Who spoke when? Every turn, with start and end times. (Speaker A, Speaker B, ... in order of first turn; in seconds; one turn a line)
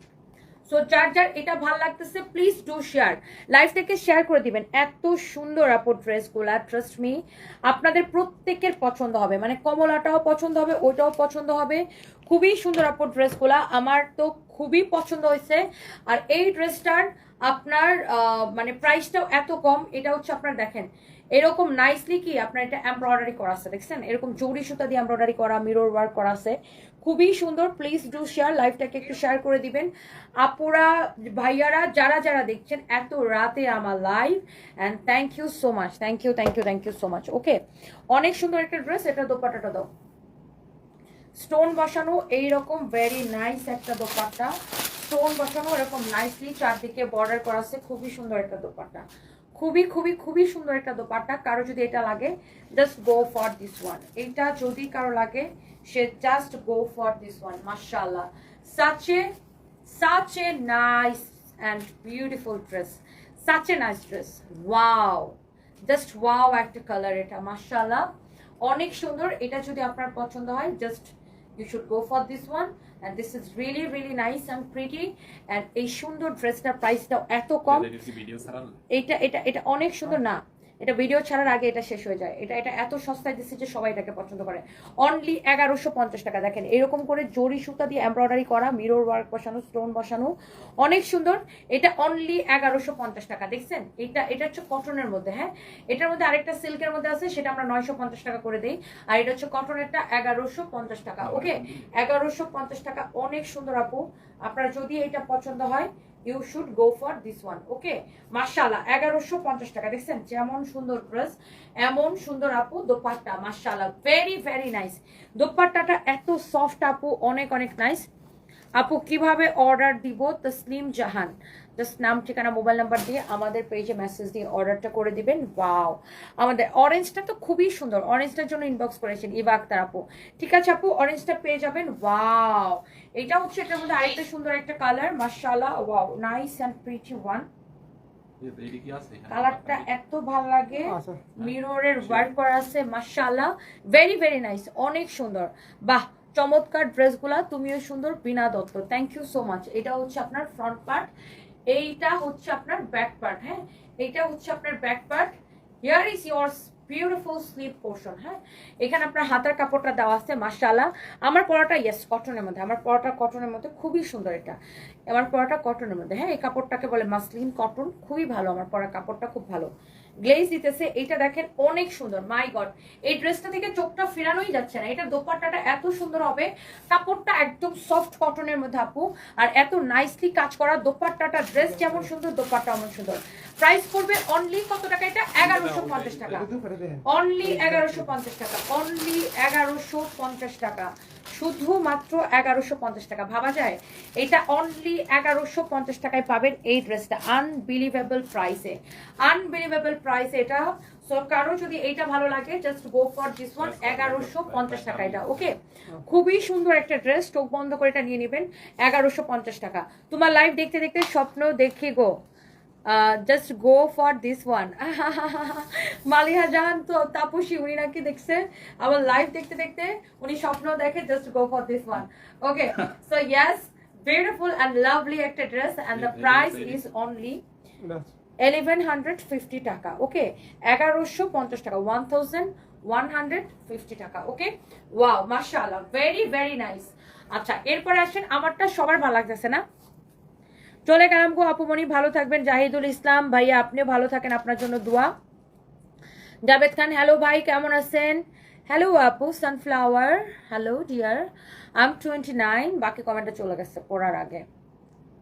Speaker A: 0.7-37.6
Speaker A: 38.1-39.9
Speaker A: 41.3-59.3
Speaker A: 59.8-68.1
Speaker A: 68.6-77.9
Speaker B: 77.7-78.8
Speaker A: 78.9-118.1
Speaker B: 101.2-101.9
Speaker A: 118.8-137.4
Speaker B: 138.4-139.9
Speaker A: 139.3-151.1
Speaker C: 140.8-141.2
Speaker B: 141.4-142.3
Speaker A: 151.7-164.6
Speaker A: 165.1-169.7
Speaker A: 170.2-186.5
Speaker C: 181.6-182.1
Speaker B: 185.4-186.5
Speaker C: 186.3-188.1
Speaker A: 187.1-212.2
Speaker B: 203.6-205.5
Speaker A: 212.8-227.4
Speaker B: 225.9-226.8
Speaker C: 227.8-228.1
Speaker A: 228.4-239.6
Speaker A: 240.8-245.1
Speaker A: 246.4-254.4